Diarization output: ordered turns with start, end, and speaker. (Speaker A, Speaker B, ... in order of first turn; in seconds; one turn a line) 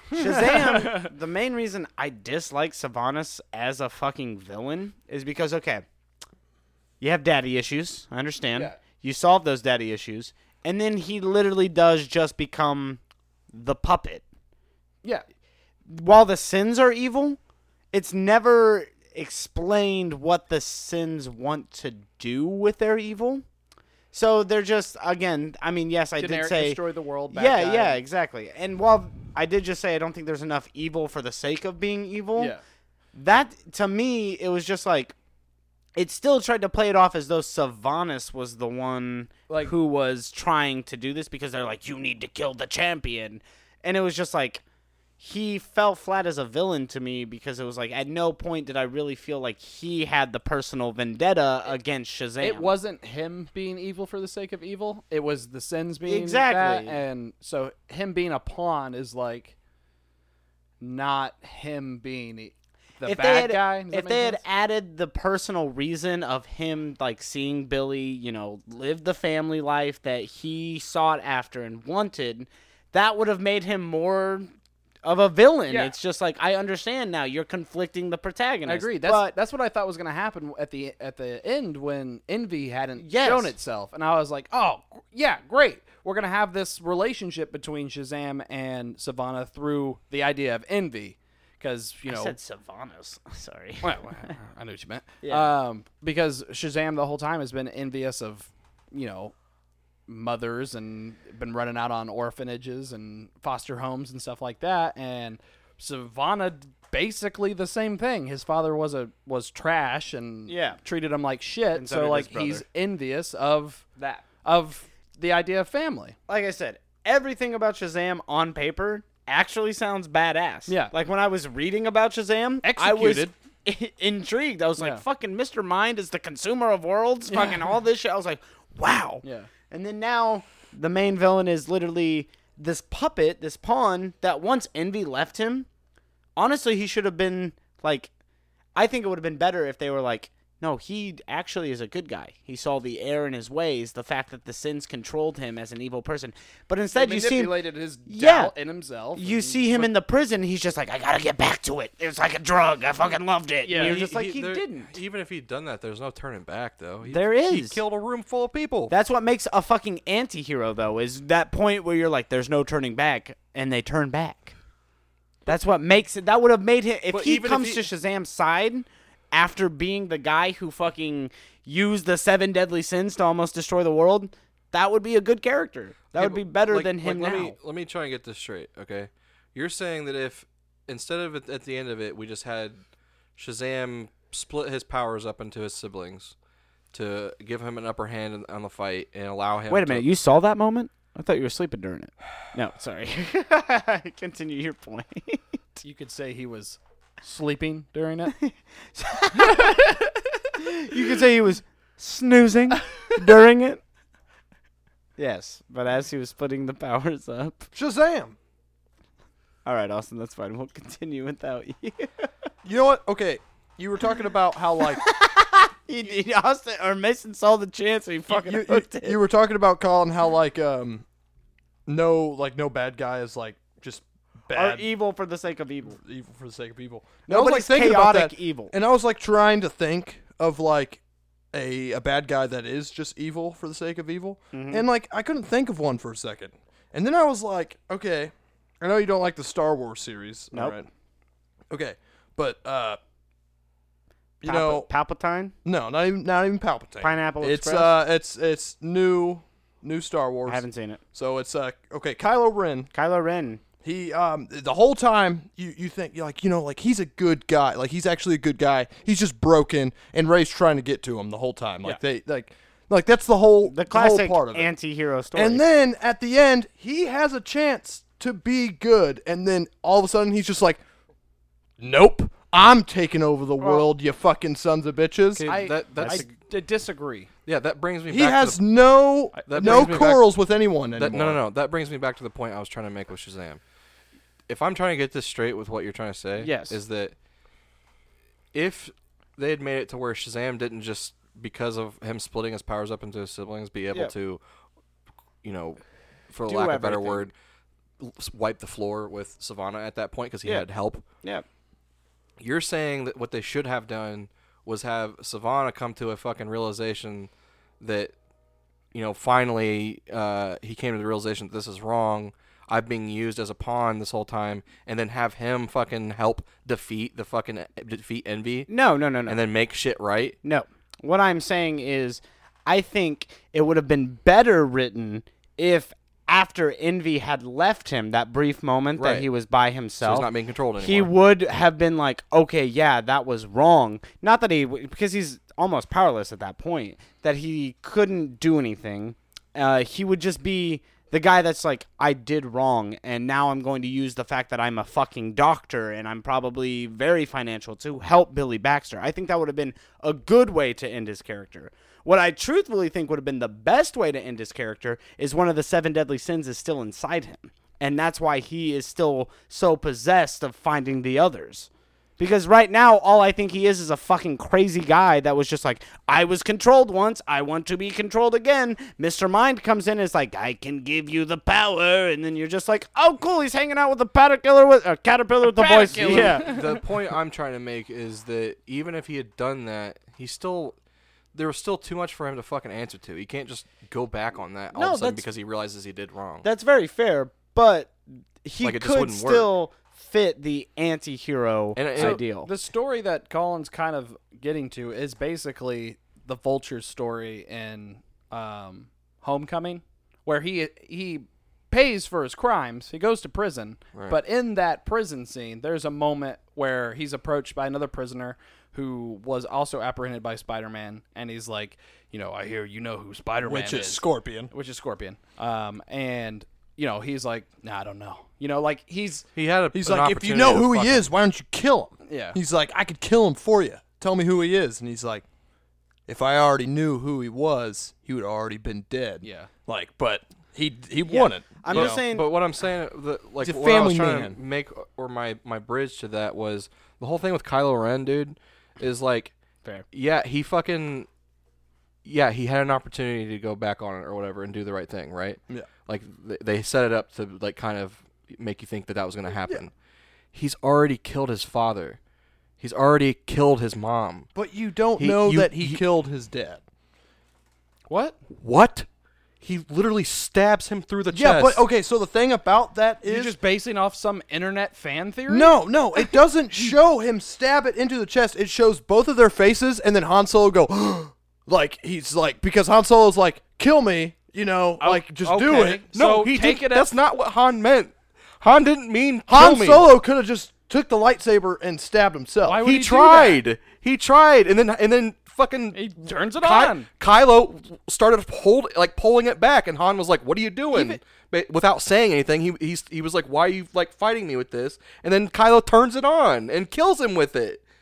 Speaker A: 0.1-1.1
Speaker B: 0.1-5.8
Speaker B: 7.0-14.2
Speaker B: 15.9-17.4
Speaker B: 17.9-23.4
Speaker B: 24.1-32.5
Speaker A: 26.2-28.0
Speaker A: 32.4-32.6
Speaker B: 33.1-35.1
Speaker B: 36.0-44.6
Speaker B: 45.2-52.7
Speaker A: 52.4-59.5
Speaker B: 56.1-57.0
Speaker A: 60.8-64.4
Speaker B: 63.0-74.5
Speaker B: 75.0-79.3
Speaker A: 75.7-75.9
Speaker A: 78.7-92.4
Speaker B: 83.0-83.5
Speaker B: 92.1-94.3
Speaker A: 93.8-99.3
Speaker B: 95.2-95.5
Speaker A: 100.1-113.8
Speaker B: 110.5-110.8
Speaker B: 111.7-112.6
Speaker B: 114.0-114.2
Speaker A: 114.4-116.2
Speaker B: 116.3-135.7
Speaker A: 120.7-120.9
Speaker A: 122.6-123.3
Speaker A: 124.8-125.0
Speaker A: 129.2-129.5
Speaker B: 136.4-138.1
Speaker B: 138.8-148.5
Speaker A: 146.9-149.9
Speaker B: 149.2-154.9
Speaker A: 153.6-154.0
Speaker C: 153.7-158.9
Speaker B: 157.1-157.8
Speaker B: 158.9-164.6
Speaker B: 165.5-177.6
Speaker C: 167.1-167.8
Speaker C: 176.1-182.8
Speaker C: 183.4-186.3
Speaker C: 186.9-190.1
Speaker B: 189.7-195.4
Speaker A: 195.8-198.3
Speaker B: 198.3-199.9
Speaker A: 199.4-200.1
Speaker B: 200.6-203.8
Speaker B: 205.2-207.7
Speaker D: 207.8-208.4
Speaker B: 209.7-212.3
Speaker D: 212.6-215.0
Speaker B: 214.8-219.2
Speaker D: 218.3-221.0
Speaker D: 221.9-224.9
Speaker B: 224.5-226.0
Speaker D: 226.0-231.0
Speaker B: 227.3-228.7
Speaker D: 231.5-240.9
Speaker B: 234.5-234.8
Speaker D: 241.7-243.0
Speaker D: 244.4-244.9
Speaker B: 244.4-245.5
Speaker D: 245.7-252.9
Speaker B: 247.0-248.0
Speaker B: 250.5-251.0
Speaker B: 252.9-253.6
Speaker D: 253.8-264.7
Speaker B: 263.6-265.6
Speaker D: 265.3-270.8
Speaker D: 271.8-275.5
Speaker B: 273.6-273.9
Speaker C: 275.3-276.3
Speaker A: 275.5-277.3
Speaker B: 276.0-276.3
Speaker C: 277.5-278.6
Speaker D: 278.1-281.4
Speaker A: 279.3-280.1
Speaker C: 279.5-280.3
Speaker C: 280.9-283.6
Speaker C: 284.5-287.1
Speaker B: 286.4-286.8
Speaker C: 288.5-294.4
Speaker C: 295.4-295.8
Speaker C: 296.3-297.3
Speaker B: 296.5-297.3
Speaker C: 298.0-301.0
Speaker C: 302.4-308.1
Speaker C: 308.9-318.7
Speaker B: 318.7-319.4
Speaker C: 319.3-320.4
Speaker B: 320.4-376.6
Speaker C: 329.0-329.3
Speaker C: 330.0-331.1
Speaker A: 375.5-376.8
Speaker C: 376.0-380.8
Speaker C: 381.3-386.5
Speaker B: 384.7-385.2
Speaker B: 386.4-392.5
Speaker C: 388.6-389.5
Speaker C: 391.8-392.2
Speaker A: 392.0-419.2
Speaker D: 413.4-414.5
Speaker C: 419.4-421.1
Speaker D: 419.7-425.2
Speaker A: 422.1-422.4
Speaker D: 426.1-432.0
Speaker A: 429.2-429.5
Speaker B: 431.1-432.3
Speaker C: 431.7-439.3
Speaker D: 433.4-434.4
Speaker C: 439.9-441.1
Speaker C: 442.1-449.7
Speaker C: 450.3-452.0
Speaker C: 452.6-454.3
Speaker D: 454.4-456.6
Speaker C: 455.0-455.8
Speaker A: 457.9-458.2
Speaker C: 458.4-458.9
Speaker C: 459.4-461.6
Speaker D: 461.1-463.4
Speaker A: 463.0-466.1
Speaker D: 465.3-475.8
Speaker A: 474.8-476.9
Speaker C: 475.9-479.9
Speaker D: 479.3-482.6
Speaker A: 482.4-483.4
Speaker C: 482.6-497.6
Speaker A: 485.7-486.9
Speaker A: 490.7-491.0